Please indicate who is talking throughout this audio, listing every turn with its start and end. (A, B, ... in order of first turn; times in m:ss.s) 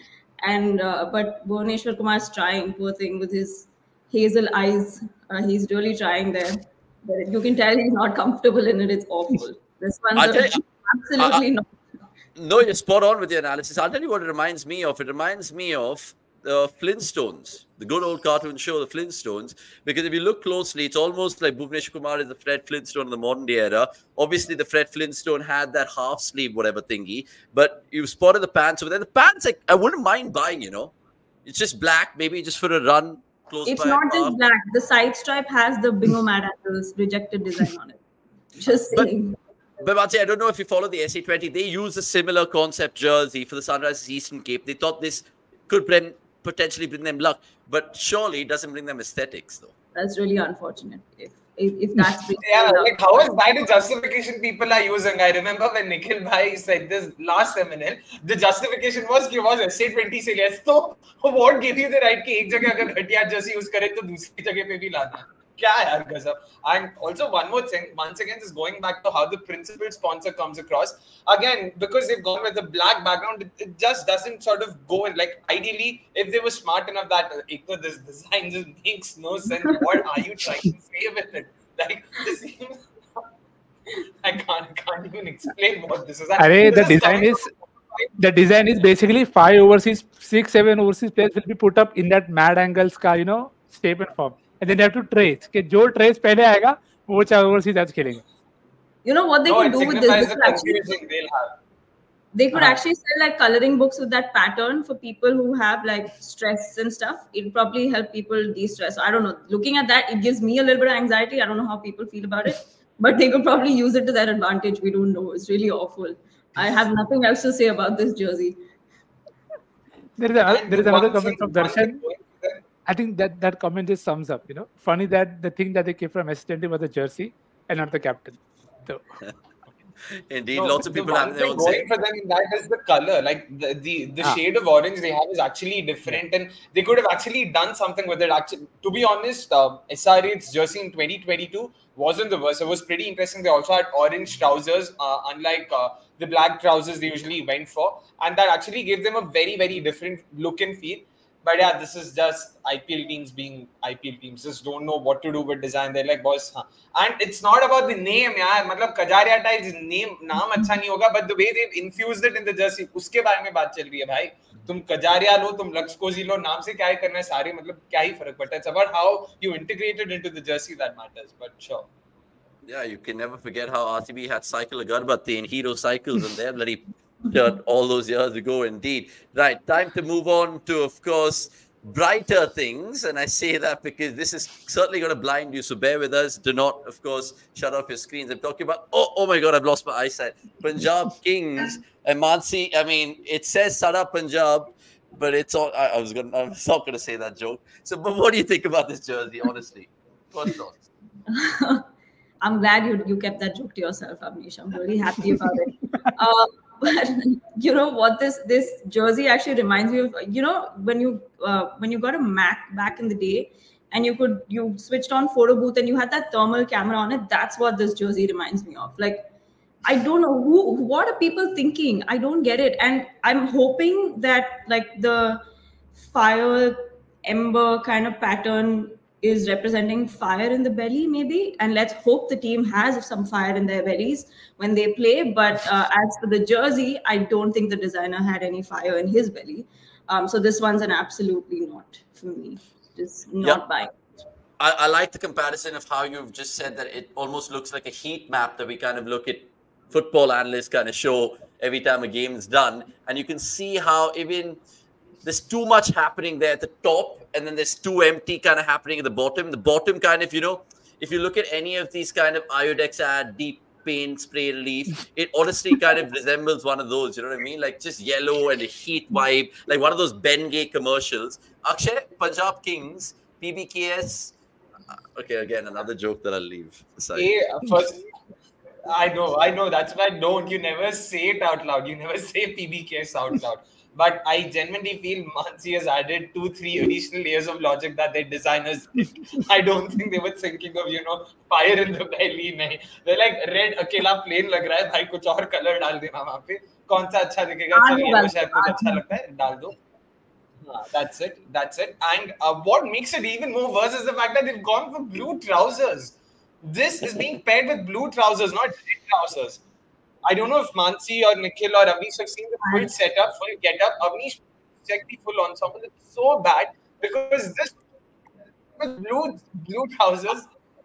0:00.4-0:11.8 A
0:10.2-0:10.6 B
0:12.4-0:30.9 B
0:31.4-0:34.3 B
0:33.6-0:38.0 A
0:38.6-0:39.4 A
0:38.6-0:39.1 B
0:39.8-0:49.7 B
0:49.9-0:52.9 A
0:52.4-1:22.8 C
1:24.2-1:28.1 C
1:26.4-1:27.5 D
1:28.2-1:38.2 D
1:39.0-1:40.8 A
1:39.5-1:41.5 C
1:42.3-1:58.6 A
2:00.2-2:02.0 D
2:00.4-2:02.6 C
2:02.8-2:09.0 D
2:10.2-2:11.9 B
2:10.6-2:51.9 C
2:52.6-3:20.8 B
3:21.3-3:21.8 A
3:22.4-3:39.3 A
3:39.8-3:45.4 A
3:46.0-4:03.9 A
4:04.6-4:14.6 B
4:15.2-4:34.3 B
4:35.1-4:37.3 B
4:37.2-4:38.1 C
4:38.9-4:59.8 C
4:57.7-4:59.0 A
5:00.6-5:09.6 C
5:10.2-5:17.8 C
5:18.8-5:20.5 C